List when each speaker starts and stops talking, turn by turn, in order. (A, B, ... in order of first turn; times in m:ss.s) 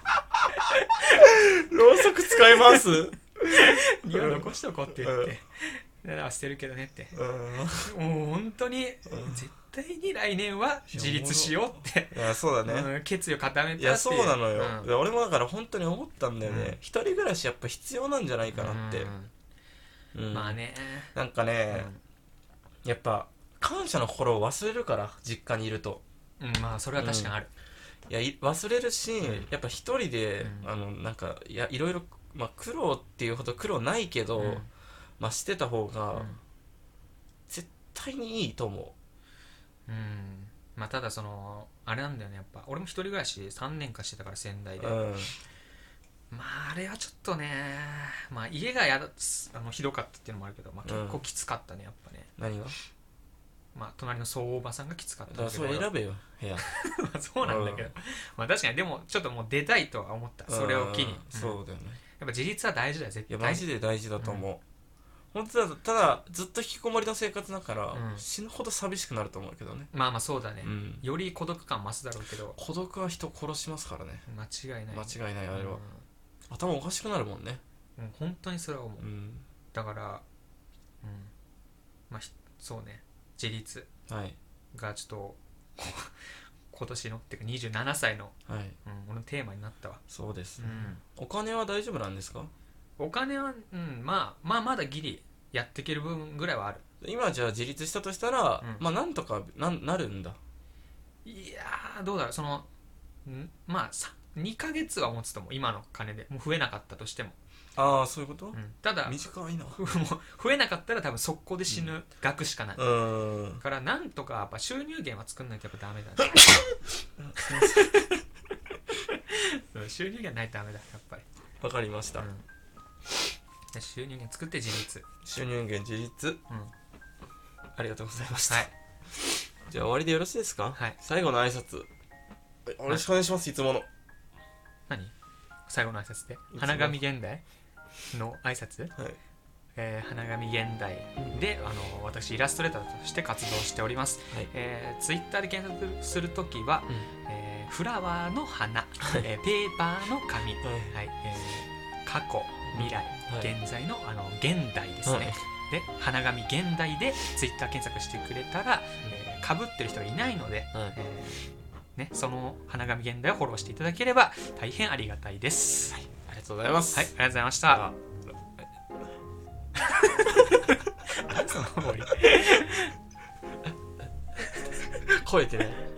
0:00.5-0:01.4 A
0:01.1-0:05.3 B
0:02.3-0:02.9 A
0:03.5-0:07.2 A
0:07.1-0:07.9 B
0:07.8-0:14.9 A
0:09.1-0:09.4 B
0:10.9-0:12.9 B
0:13.8-0:19.1 B
0:16.4-0:16.8 A
0:18.5-0:19.3 A
0:20.1-0:20.6 B
0:20.3-0:21.1 A
0:21.1-0:21.9 B
0:21.7-0:22.0 A
0:22.8-0:26.0 B
0:26.4-0:27.5 A
0:27.0-0:27.3 B
0:28.1-0:34.6 B
0:29.2-0:29.5 A
0:30.4-0:30.7 A
0:34.4-0:34.7 A
0:35.2-0:36.3 B
0:36.1-0:36.4 A
0:37.5-0:38.9 B
0:39.9-0:45.0 A
0:44.8-0:45.3 B
0:46.3-0:52.3 A
0:50.8-0:51.2 B
0:52.4-0:52.8 B
0:53.7-0:55.9 A
0:55.3-0:56.6 B
0:56.6-1:01.6 A
0:57.4-0:57.9 B
1:00.5-1:02.0 B
1:02.2-1:03.6 A
1:03.3-1:04.6 B
1:04.2-1:04.4 A
1:05.3-1:09.9 B
1:07.9-1:08.2 A
1:09.9-1:12.6 A
1:10.6-1:11.0 B
1:12.6-1:14.2 B
1:14.3-1:16.0 A
1:14.9-1:15.8 B
1:16.5-1:17.6 B
1:18.0-1:19.1 A
1:19.0-1:19.4 B
1:19.7-1:20.2 A
1:21.0-1:21.3 A
1:22.1-1:23.9 A
1:24.1-1:24.4 B
1:24.7-1:26.2 A
1:26.7-1:30.0 A
1:28.5-1:28.8 B
1:30.1-1:32.5 B
1:30.6-1:31.0 A
1:33.0-1:36.8 A
1:37.0-1:40.4 B
1:41.2-1:42.7 A
1:43.2-1:47.4 A
1:47.8-1:49.8 B
1:48.5-1:49.2 A
1:49.7-1:52.8 A
1:52.8-1:53.6 B
1:53.6-1:56.8 A
1:57.2-1:58.0 B
1:57.4-1:58.2 A
1:59.1-2:01.2 A
2:01.6-2:02.3 B
2:02.2-2:02.4 A
2:03.7-2:05.0 A
2:05.2-2:06.4 B
2:07.7-2:11.9 B
2:08.4-2:08.7 A
2:12.6-2:13.9 B
2:14.9-2:15.1 A
2:15.7-2:17.4 A
2:16.5-2:17.0 B
2:18.1-2:18.9 A
2:19.8-2:46.1 A
2:30.6-2:30.9 B
2:32.7-2:33.5 B
2:35.0-2:35.4 B
2:46.2-2:47.1 B
2:46.9-2:47.9 A
2:49.8-2:52.9 A
2:54.9-2:55.8 B